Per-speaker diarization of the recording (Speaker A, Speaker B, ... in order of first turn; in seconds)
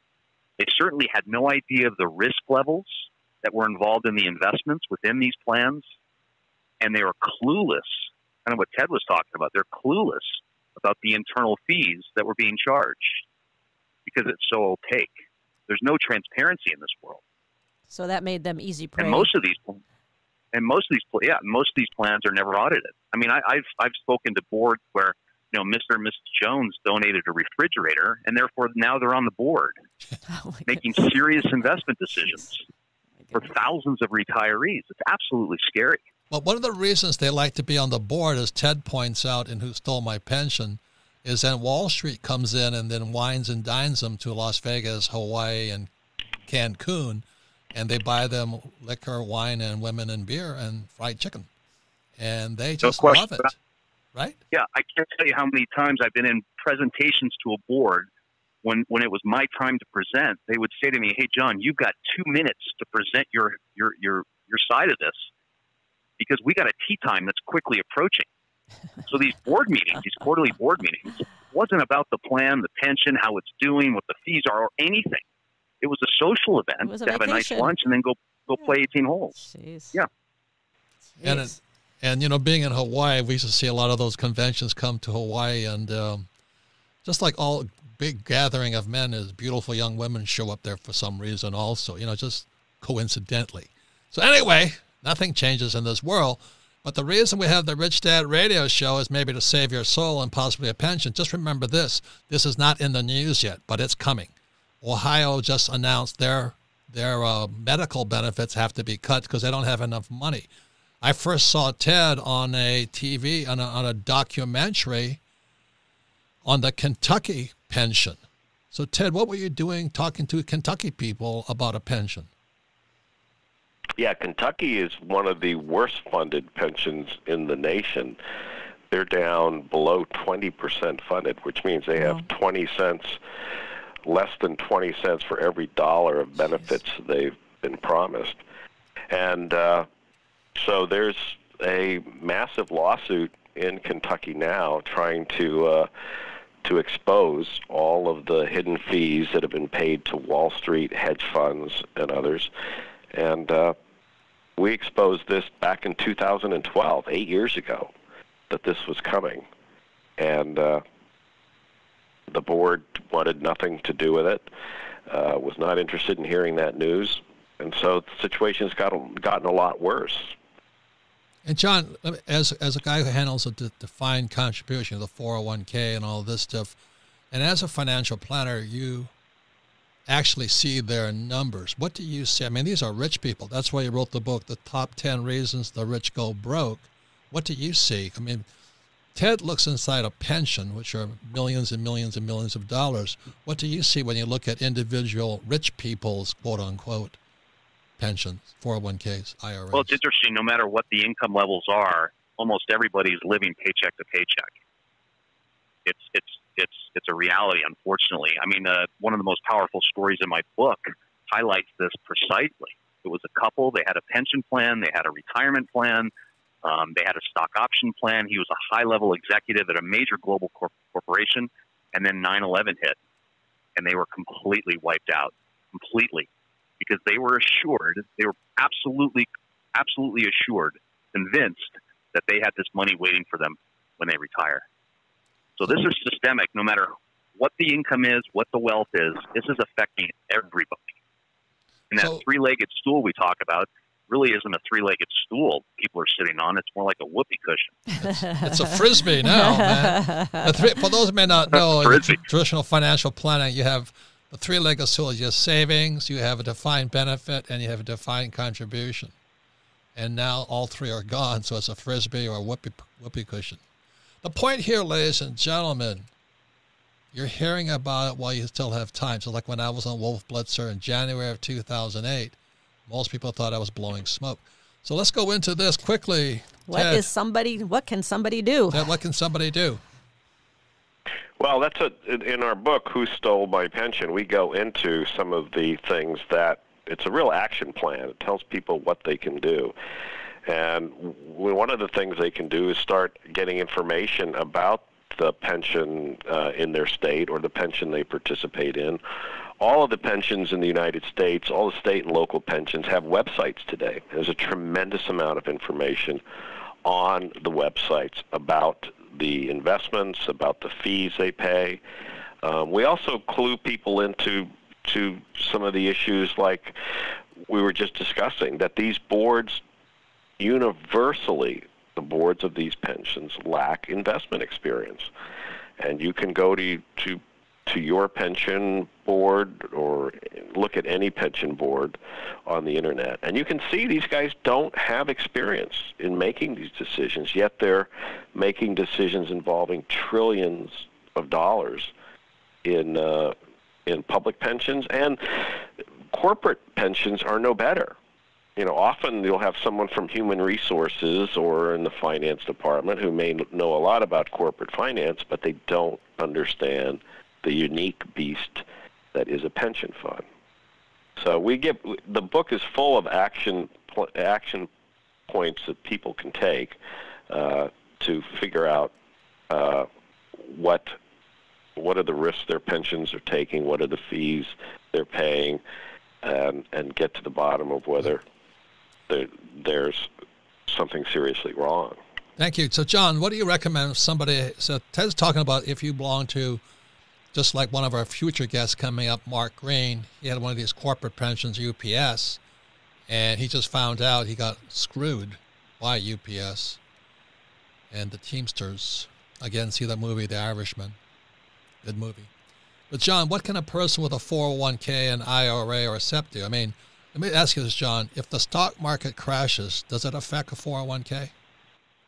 Speaker A: 0.6-5.8, 6.8-13.2, 14.1-15.1, 15.7-17.2, 19.0-19.8, 20.5-29.8, 30.7-32.6, 33.3-36.0, 52.8-53.4, 54.5-58.1, 58.6-65.3, 66.2-68.2, 69.0-75.2, 75.8-79.4, 199.7-204.5, 205.8-216.1, 216.6-223.0, 223.8-226.3, 226.8-234.6, 235.6-240.9, 241.9-247.8, 251.5-252.2
Speaker B: 17.9-19.3, 30.3-31.1, 76.8-77.7, 79.3-79.9, 81.2-81.5, 248.3-248.6, 249.2-250.4, 276.7-278.9
Speaker C: 36.3-45.9, 46.5-51.5, 52.2-53.5, 81.2-86.3, 87.0-110.5, 111.0-115.2, 116.4-118.2, 118.7-122.3, 171.4-176.8, 177.3-179.1, 180.1-188.4, 189.1-197.2, 198.0-200.0, 241.9-242.2, 248.0-259.1, 259.9-263.6, 264.2-266.1, 267.1-277.1, 278.7-279.8, 382.4-386.6, 387.3-392.4, 393.1-396.8, 397.9-401.0, 401.8-402.3, 402.9-411.3
Speaker D: 124.0-128.2, 128.9-133.2, 134.1-138.4, 139.1-139.9, 140.5-145.9, 146.6-152.5, 153.1-153.7, 154.6-157.9, 158.5-159.4, 160.2-160.8, 162.3-164.4, 165.1-170.3, 281.4-289.7, 290.4-299.0, 299.6-306.2, 306.8-311.8, 312.4-316.7, 317.5-319.6, 320.4-325.1, 325.8-341.9, 342.6-343.3, 343.9-345.4, 346.1-347.9, 348.6-360.2, 361.2-364.7, 365.3-366.8, 367.3-368.9, 369.5-370.9, 371.8-375.6, 376.2-378.2, 379.1-380.1, 380.7-382.0